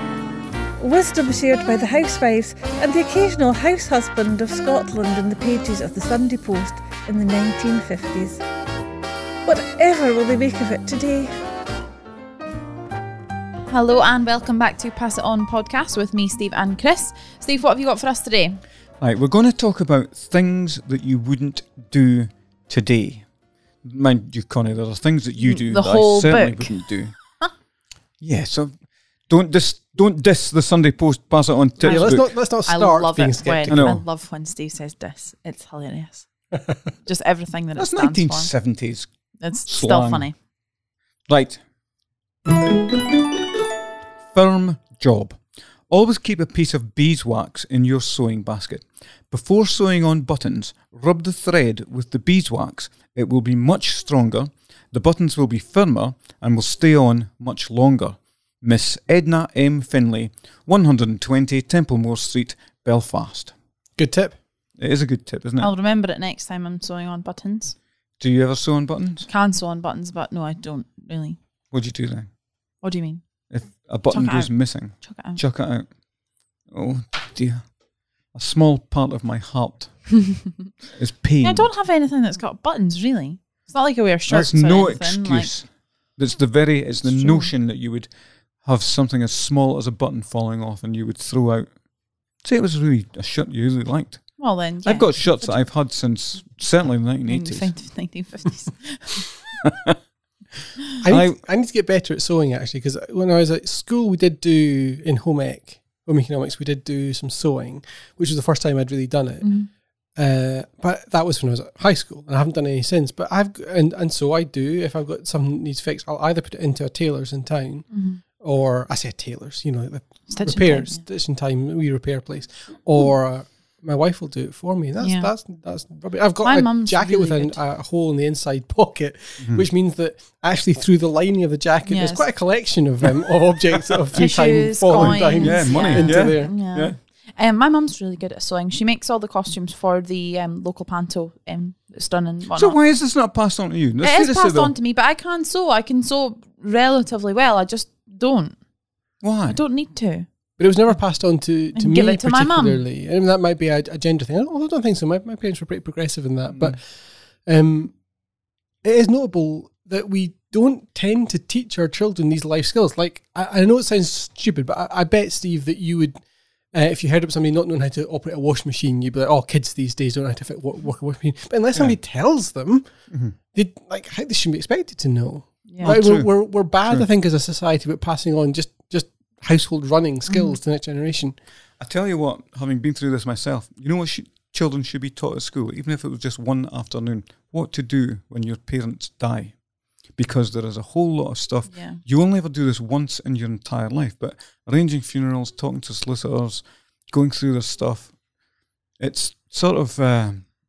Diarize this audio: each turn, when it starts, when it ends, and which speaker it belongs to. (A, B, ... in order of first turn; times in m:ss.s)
0:00.8-0:08.4 A
0:09.5-0:11.3 A
0:13.7-0:18.6 B
0:19.0-0:23.3 C
0:23.8-0:27.2 C
0:25.4-0:26.8 B
0:28.2-0:28.7 C
0:29.3-0:32.3 C
0:31.8-0:33.9 D
0:31.8-0:36.3 B
0:33.7-0:34.0 C
0:37.0-0:38.5 B
0:37.8-0:39.1 C
0:39.4-0:40.4 B
0:39.7-0:40.3 C
0:41.3-0:41.6 C
0:44.3-1:03.5 C
1:04.0-1:04.4 D
1:04.8-1:05.7 C
1:05.6-1:07.8 B
1:08.2-1:09.3 C
1:09.3-1:11.4 B
1:11.7-1:12.3 C
1:12.8-1:13.2 B
1:13.5-1:15.9 C
1:14.1-1:15.4 B
1:16.7-1:17.7 C
1:18.3-1:20.1 C
1:20.9-1:21.7 C
1:21.4-1:25.5 B
1:24.3-1:28.1 C
1:27.1-1:27.5 B
1:28.6-1:31.7 C
1:32.4-1:34.2 C
1:34.4-1:35.6 B
1:34.8-1:37.7 C
1:37.3-1:39.3 B
1:39.6-1:40.0 C
1:41.0-1:49.5 D
1:41.1-1:41.4 C
1:49.4-1:49.7 B
1:50.2-1:57.9 D
1:57.9-1:58.2 B
1:58.4-2:16.6 D
2:00.3-2:01.0 B
2:05.0-2:05.3 B
2:06.4-2:07.6 B
2:09.4-2:09.7 C
2:11.9-2:12.2 B
2:14.1-2:22.8 B
2:14.9-2:17.0 C
2:22.5-2:24.7 C
2:24.0-2:28.6 B
2:29.2-2:29.6 C
2:29.5-2:30.3 B
2:30.6-2:36.8 D
2:31.8-2:32.8 B
2:37.4-2:37.9 D
2:38.8-2:46.2 D
2:46.7-2:52.9 D
2:53.5-3:01.3 D
2:55.7-2:56.0 B
2:55.8-2:56.3 C
3:00.3-3:00.6 B
3:01.8-3:09.5 C
3:10.2-3:18.1 C
3:11.7-3:12.0 B
3:19.0-3:20.4 C